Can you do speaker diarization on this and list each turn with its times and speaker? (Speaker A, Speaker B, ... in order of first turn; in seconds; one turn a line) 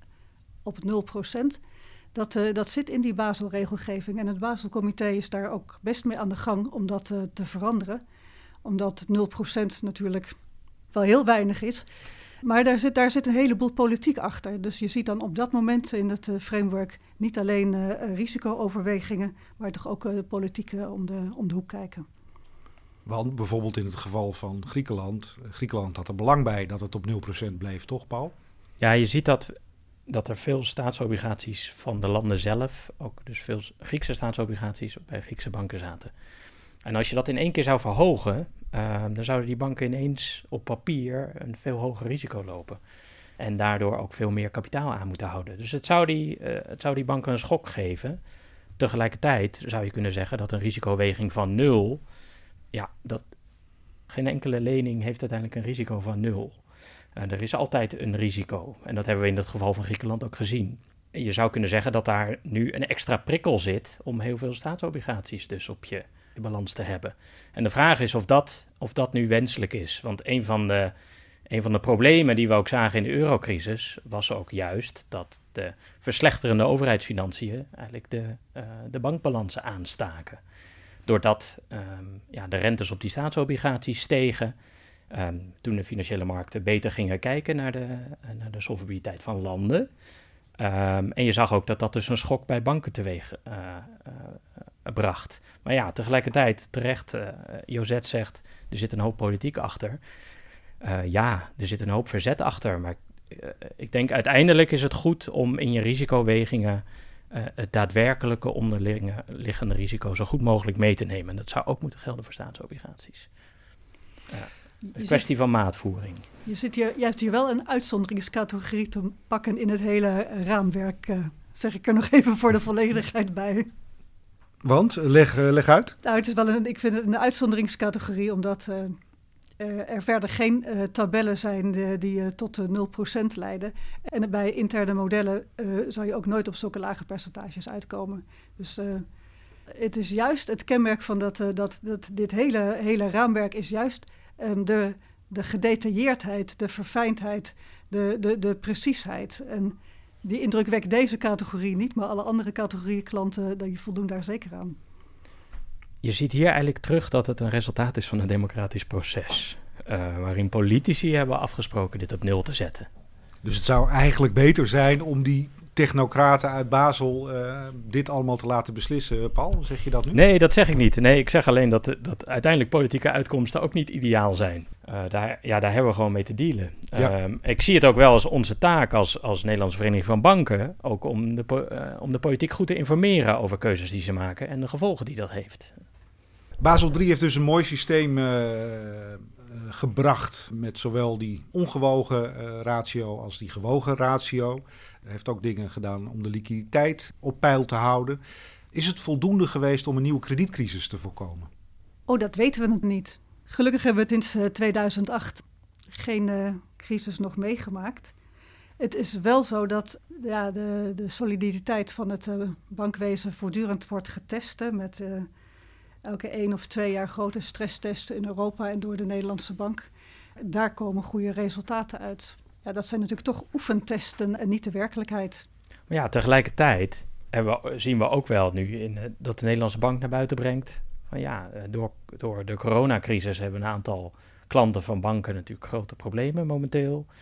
Speaker A: 0.6-1.6
Speaker A: 2.1-8.0
Speaker A: 8.6-10.3
Speaker A: 10.9-11.9
Speaker A: 12.4-22.1
Speaker B: 23.0-28.3
Speaker C: 28.8-29.5
Speaker C: 30.1-36.1
Speaker C: 36.8-42.8
Speaker C: 43.4-48.2
Speaker C: 48.8-52.0
Speaker C: 52.7-53.2
Speaker C: 54.1-56.6
Speaker C: 57.1-70.9
Speaker C: 71.5-80.4
Speaker C: 81.0-84.5
Speaker C: 85.1-89.9
Speaker C: 90.6-100.0
Speaker C: 100.8-113.3
Speaker C: 114.3-116.3
Speaker A: 114.9-115.2
Speaker A: 116.5-123.7
Speaker B: 124.6-126.0
Speaker A: 126.0-129.0
Speaker A: 129.6-139.1
Speaker A: 139.7-154.8
Speaker C: 156.0-162.9
Speaker B: 163.4-170.2
Speaker C: 170.1-185.7
Speaker B: 186.6-198.2
Speaker B: 198.7-201.5
Speaker A: 202.1-208.1
Speaker A: 208.8-215.3
Speaker A: 216.0-219.9
Speaker A: 220.4-225.4
Speaker C: 225.9-237.1